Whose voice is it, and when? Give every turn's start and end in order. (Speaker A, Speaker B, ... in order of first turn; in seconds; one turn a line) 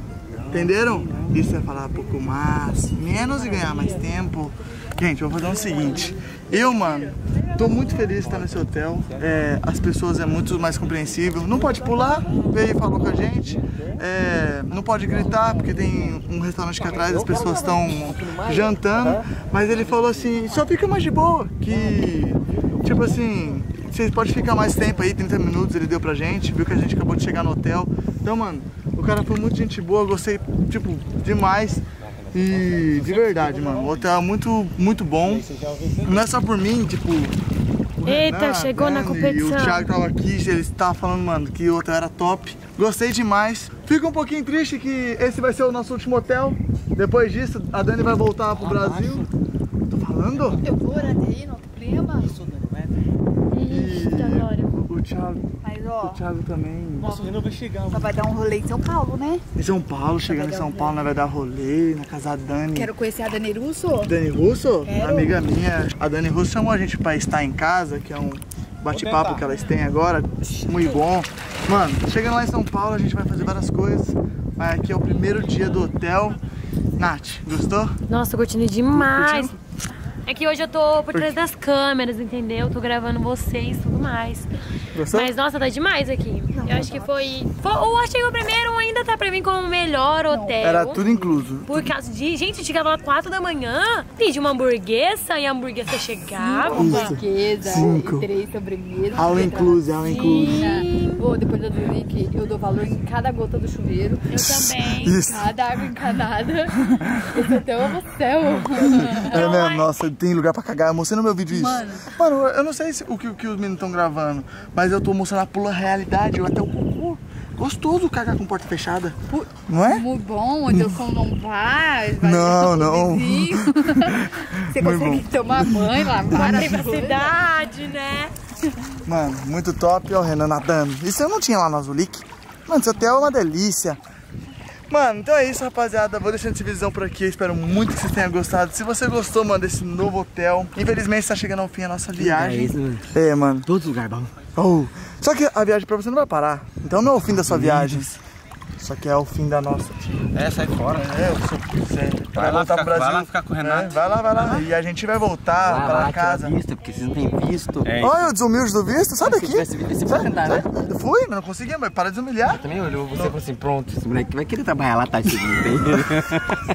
Speaker A: 0.5-1.5
Speaker B: 0.5-35.5
Speaker A: 3.3-4.0
Speaker C: 3.6-4.0
Speaker A: 5.5-9.4
Speaker A: 11.2-14.0
Speaker C: 15.2-16.2
Speaker C: 16.8-19.3
Speaker C: 19.9-20.6
Speaker A: 32.1-34.1
Speaker A: 35.2-36.3
Speaker B: 36.0-37.4
Speaker B: 38.0-49.3
Speaker D: 38.0-39.9
Speaker A: 48.6-49.3
Speaker B: 49.9-50.6
Speaker E: 50.6-52.4
Speaker A: 50.9-51.2
Speaker A: 52.1-53.0
Speaker D: 53.5-54.7
Speaker B: 53.6-57.1
Speaker E: 55.6-56.2
Speaker A: 57.0-58.1
Speaker E: 57.9-59.4
Speaker B: 59.6-62.9
Speaker E: 60.3-61.0
Speaker E: 62.7-64.1
Speaker B: 64.0-76.4
Speaker E: 64.9-65.3
Speaker A: 68.9-69.4
Speaker B: 77.0-78.0
Speaker D: 78.1-79.6
Speaker B: 78.9-79.6
Speaker D: 80.3-84.5
Speaker B: 81.1-81.4
Speaker B: 85.0-85.3
Speaker D: 85.1-91.0
Speaker E: 86.6-87.1
Speaker E: 90.3-91.4
Speaker B: 90.6-91.9
Speaker D: 91.7-97.2
Speaker E: 96.3-104.6
Speaker B: 96.7-98.3
Speaker B: 99.1-100.7
Speaker D: 100.0-101.2
Speaker D: 104.3-105.2
Speaker B: 104.5-105.5
Speaker E: 105.1-109.5
Speaker B: 106.9-107.5
Speaker B: 108.8-120.1
Speaker D: 109.2-109.9
Speaker E: 111.5-112.1
Speaker E: 119.3-127.3
Speaker B: 120.7-121.1
Speaker B: 122.2-126.8
Speaker D: 126.3-128.3
Speaker B: 129.1-134.0
Speaker B: 134.9-143.7
Speaker C: 142.2-143.1
Speaker C: 143.7-144.3
Speaker B: 144.6-148.2
Speaker C: 147.5-148.0
Speaker B: 148.8-150.2
Speaker A: 150.3-151.2
Speaker B: 150.9-156.6
Speaker A: 152.3-154.0
Speaker C: 155.6-158.1
Speaker A: 157.8-158.2
Speaker B: 158.0-162.6
Speaker C: 159.2-160.7
Speaker C: 162.5-166.6